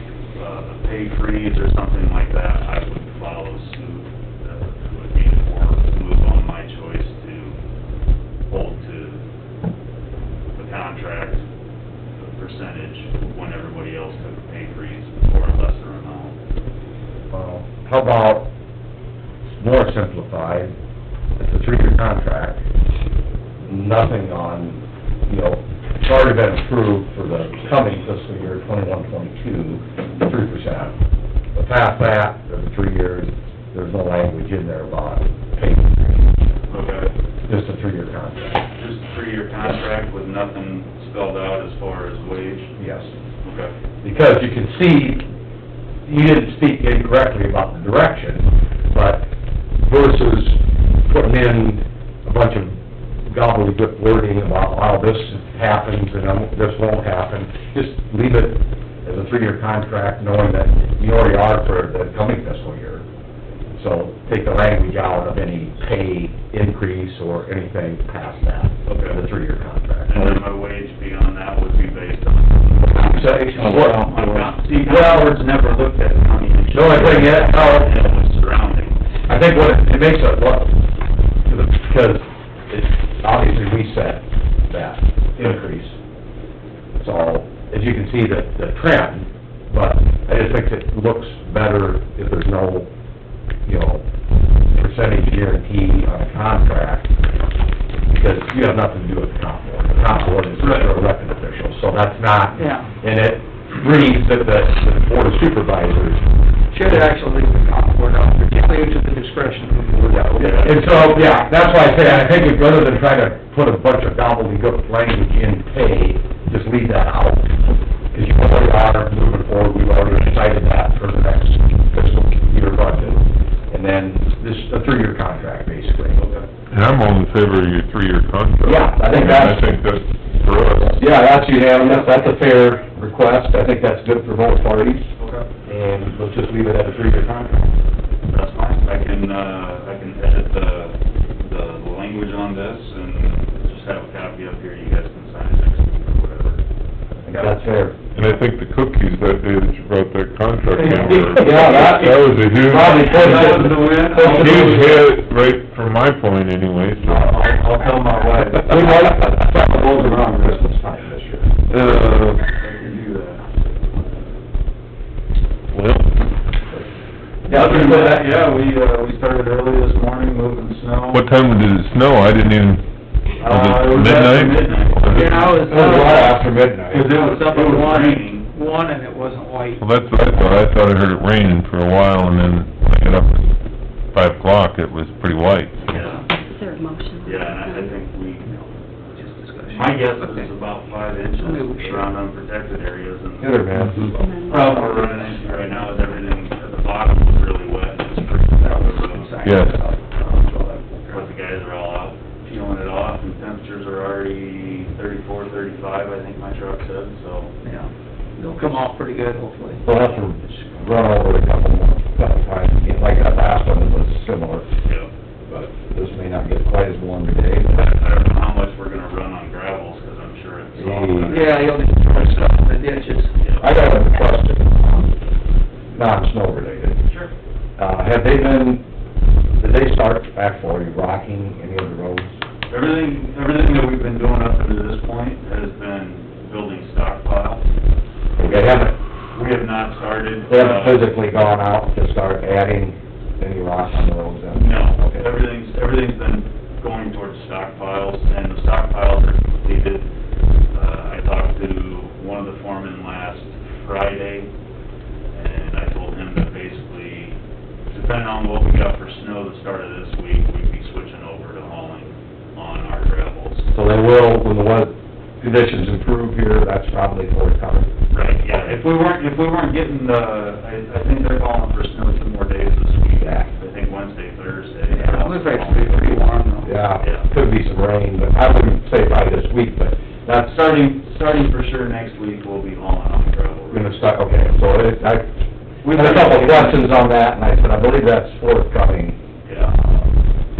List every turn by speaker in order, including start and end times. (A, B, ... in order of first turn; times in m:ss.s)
0:00.3-0:07.6 A
0:08.5-0:09.2 A
0:10.6-0:11.4 A
0:12.2-0:16.4 A
0:17.3-0:18.5 B
0:19.6-0:20.7 B
0:21.4-0:22.6 B
0:23.6-0:31.0 B
0:31.5-0:36.3 B
0:36.7-0:37.1 A
0:37.5-0:38.6 B
0:38.7-0:42.7 A
0:42.8-0:43.1 B
0:43.4-0:43.7 A
0:44.0-0:45.2 B
0:46.0-1:03.0 B
1:03.8-1:10.4 B
1:08.9-1:09.2 A
1:10.1-1:13.1 A
1:12.9-1:14.2 C
1:13.1-1:15.4 B
1:13.7-1:19.0 A
1:16.7-1:18.0 B
1:19.3-1:20.8 B
1:21.4-1:25.9 B
1:27.0-1:32.9 B
1:33.6-1:34.0 B
1:34.7-1:37.1 B
1:38.1-1:46.3 B
1:40.6-1:40.9 A
1:42.6-1:42.9 C
1:46.7-1:50.5 C
1:50.1-1:57.6 B
1:50.4-1:51.2 A
1:58.1-2:06.2 B
2:06.2-2:06.5 A
2:06.7-2:11.4 D
2:08.6-2:09.6 B
2:10.9-2:15.1 B
2:11.7-2:12.2 C
2:15.2-2:15.5 A
2:15.6-2:17.7 B
2:18.3-2:26.6 A
2:27.2-2:27.6 A
2:27.2-2:28.0 B
2:28.1-2:37.4 D
2:30.7-2:32.1 C
2:31.2-2:34.6 B
2:32.8-2:35.1 A
2:33.0-2:34.9 C
2:37.0-2:43.5 A
2:38.6-2:41.4 B
2:41.7-2:42.4 D
2:45.7-2:46.0 D
2:47.5-2:48.2 B
2:47.5-2:51.3 A
2:47.5-2:48.2 C
2:51.1-2:52.8 D
2:53.4-2:56.2 A
2:53.4-2:55.7 D
2:55.1-2:56.5 C
2:55.7-2:57.2 B
2:56.9-2:58.5 A
2:57.1-2:59.8 C
2:59.8-3:03.5 D
3:04.1-3:06.0 D
3:05.8-3:06.3 A
3:06.3-3:07.9 E
3:07.2-3:13.8 A
3:09.2-3:10.5 C
3:11.4-3:12.1 C
3:13.4-3:14.2 B
3:14.1-3:14.9 E
3:14.5-3:19.4 A
3:14.5-3:15.4 C
3:18.6-3:21.3 C
3:19.4-3:19.8 D
3:21.1-3:27.5 A
3:27.6-3:29.8 C
3:29.8-3:34.6 B
3:34.8-3:35.1 A
3:35.4-3:37.8 B
3:37.7-3:42.6 A
3:40.7-3:41.5 B
3:41.3-3:43.3 C
3:43.4-3:43.7 A
3:43.6-3:45.1 B
3:45.9-3:47.0 B
3:47.0-3:47.3 A
3:47.8-3:48.8 B
3:49.6-3:52.3 B
3:52.7-3:57.6 A
3:58.4-3:59.0 B
3:59.3-4:01.1 A
4:00.5-4:05.3 B
4:04.5-4:10.0 A
4:10.7-4:14.5 A
4:15.3-4:17.4 A
4:17.9-4:23.7 A
4:23.7-4:27.9 B
4:28.1-4:36.2 A
4:33.2-4:33.5 B
4:34.9-4:36.7 C
4:36.6-4:40.5 B
4:37.0-4:37.3 A
4:40.4-4:43.9 A
4:43.7-4:45.3 B
4:45.8-4:46.8 A
4:45.8-4:49.2 B
4:49.4-4:49.8 A
4:49.8-4:50.0 B